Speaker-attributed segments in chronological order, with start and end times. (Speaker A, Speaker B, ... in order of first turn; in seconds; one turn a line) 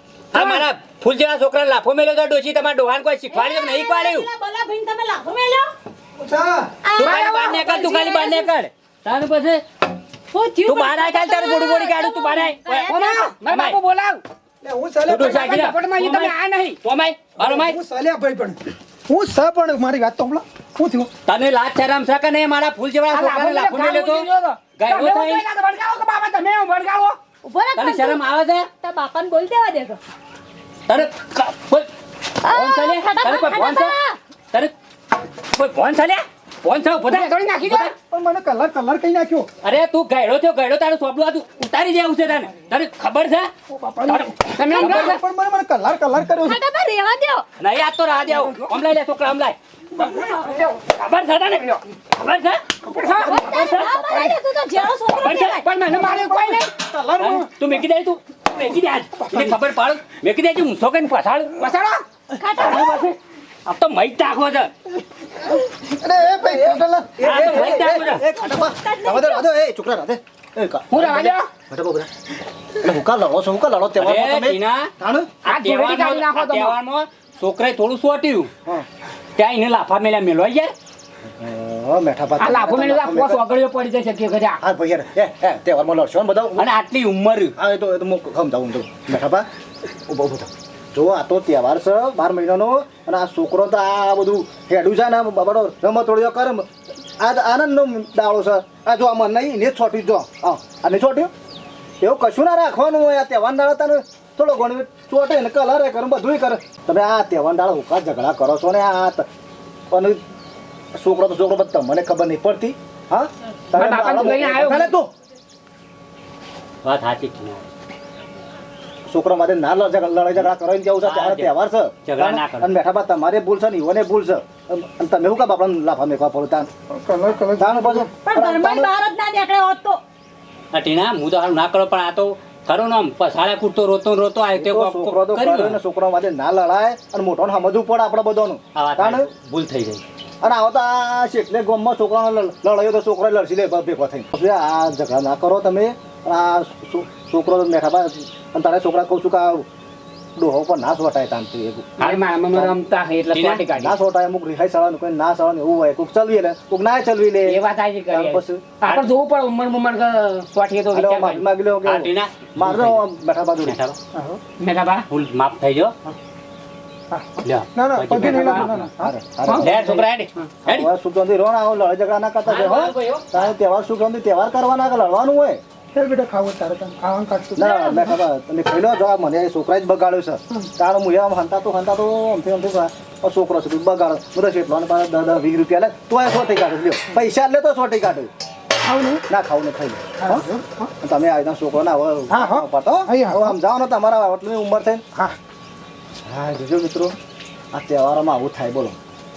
Speaker A: 0.3-4.3
Speaker B: 0.4-0.6
Speaker C: 3.3-5.7
Speaker D: 6.2-6.7
Speaker C: 6.8-8.5
Speaker A: 7.0-9.6
Speaker B: 7.0-7.4
Speaker C: 10.3-13.3
Speaker A: 10.6-12.9
Speaker B: 12.7-14.2
Speaker A: 13.5-13.8
Speaker D: 14.6-15.5
Speaker A: 15.1-17.8
Speaker B: 15.2-16.8
Speaker D: 17.4-21.1
Speaker A: 21.2-24.2
Speaker B: 23.1-27.2
Speaker A: 24.8-25.4
Speaker C: 27.4-28.2
Speaker A: 27.8-28.7
Speaker C: 28.8-30.0
Speaker A: 30.9-31.9
Speaker C: 32.4-34.2
Speaker A: 32.4-33.9
Speaker A: 35.5-37.9
Speaker B: 37.0-37.9
Speaker D: 38.0-39.5
Speaker A: 39.6-43.5
Speaker D: 43.7-46.6
Speaker A: 44.1-45.1
Speaker B: 44.5-45.2
Speaker C: 44.7-45.0
Speaker C: 46.4-47.4
Speaker A: 47.6-52.8
Speaker D: 52.9-53.3
Speaker B: 52.9-53.5
Speaker C: 53.2-55.6
Speaker A: 53.4-54.0
Speaker B: 55.2-56.7
Speaker D: 55.9-57.4
Speaker A: 57.2-61.7
Speaker B: 61.6-62.0
Speaker C: 62.4-63.0
Speaker A: 62.6-64.7
Speaker E: 65.8-72.1
Speaker D: 66.3-66.8
Speaker A: 67.2-68.2
Speaker C: 67.7-69.4
Speaker B: 70.9-71.5
Speaker E: 72.8-75.3
Speaker A: 74.0-74.9
Speaker B: 75.4-76.8
Speaker A: 75.4-78.5
Speaker A: 79.4-80.7
Speaker E: 81.4-83.4
Speaker B: 82.4-84.6
Speaker E: 84.6-86.7
Speaker A: 86.5-87.5
Speaker E: 87.5-89.5
Speaker E: 90.1-96.7
Speaker E: 97.2-101.3
Speaker E: 102.0-109.2
Speaker E: 109.9-110.2
Speaker E: 111.0-115.1
Speaker B: 113.7-114.9
Speaker A: 116.8-117.7
Speaker E: 119.1-126.7
Speaker A: 121.0-121.5
Speaker A: 122.0-122.7
Speaker D: 126.9-128.1
Speaker E: 127.6-128.9
Speaker C: 128.2-130.0
Speaker A: 130.7-135.8
Speaker E: 134.5-139.3
Speaker A: 138.8-140.0
Speaker E: 140.4-149.6
Speaker E: 150.4-152.8
Speaker B: 152.0-153.9
Speaker A: 153.3-153.6
Speaker E: 153.7-158.6
Speaker B: 157.4-161.4
Speaker E: 160.9-163.8
Speaker A: 161.9-163.0
Speaker A: 163.6-164.0
Speaker D: 164.1-164.4
Speaker B: 164.6-165.1
Speaker A: 165.1-165.9
Speaker D: 167.1-169.1
Speaker A: 167.4-168.8
Speaker E: 168.3-169.8
Speaker B: 168.3-168.6
Speaker B: 169.4-170.5
Speaker A: 169.6-170.9
Speaker E: 170.7-175.6
Speaker A: 172.4-173.5
Speaker D: 175.9-178.2
Speaker E: 177.6-188.3
Speaker D: 188.9-189.2
Speaker E: 189.3-190.5
Speaker D: 190.2-190.9
Speaker E: 191.0-195.0
Speaker D: 192.3-193.5
Speaker E: 196.2-197.2
Speaker E: 197.7-199.0